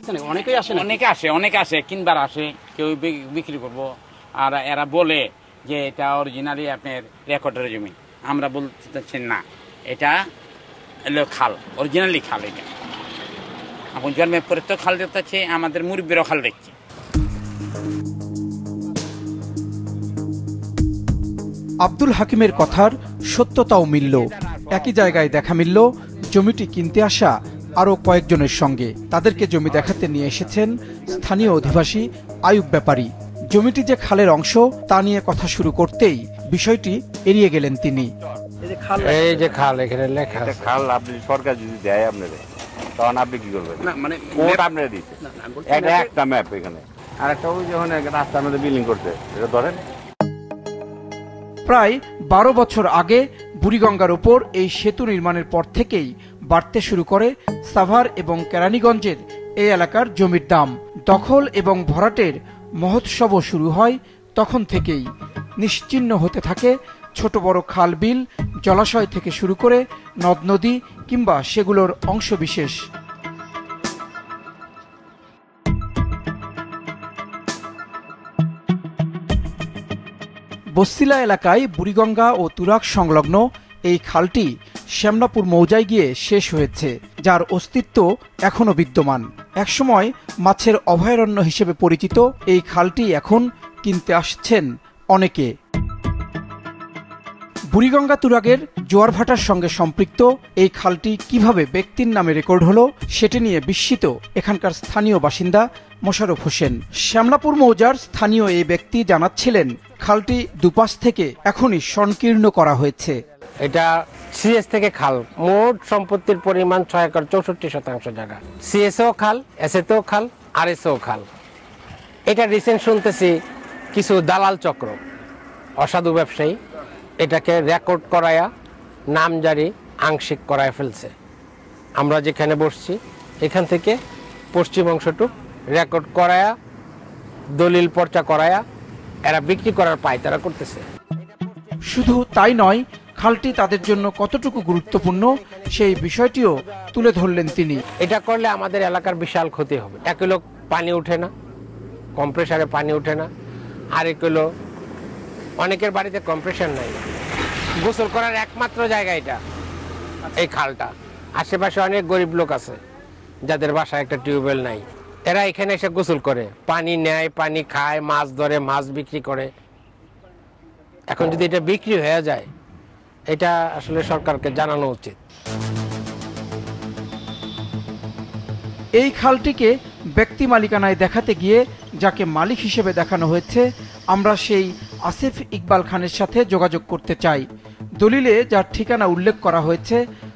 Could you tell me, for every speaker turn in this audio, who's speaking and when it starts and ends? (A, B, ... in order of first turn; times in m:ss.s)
0:00.2-0:10.2 A
0:11.1-0:12.7 A
0:13.9-0:16.7 A
0:21.8-0:38.1 B
0:39.0-0:40.7 C
0:40.4-0:42.4 D
0:43.0-0:43.8 D
0:43.8-0:44.7 A
0:44.3-0:45.1 D
0:45.2-0:46.1 A
0:45.7-0:49.8 D
0:51.7-1:05.0 B
1:05.6-1:12.8 B
1:20.8-1:35.5 B
1:37.7-1:53.2 B
1:53.6-2:01.3 C
2:02.3-2:03.4 C
2:03.9-2:05.0 C
2:05.8-2:06.6 C
2:07.2-2:08.5 C
2:09.1-2:11.1 C
2:12.0-2:14.0 C
2:14.5-2:16.5 C
2:17.6-2:18.6 C
2:19.3-2:20.8 C
2:21.9-2:27.8 B
2:28.0-2:31.3 C
2:32.2-2:33.3 C
2:34.0-2:34.4 C
2:35.6-2:37.0 C
2:37.8-2:39.4 C
2:40.3-2:42.8 C
2:43.5-2:49.5 C
2:51.1-2:52.5 C
2:53.3-2:55.2 C
2:59.0-3:07.4 B
3:08.0-3:10.0 B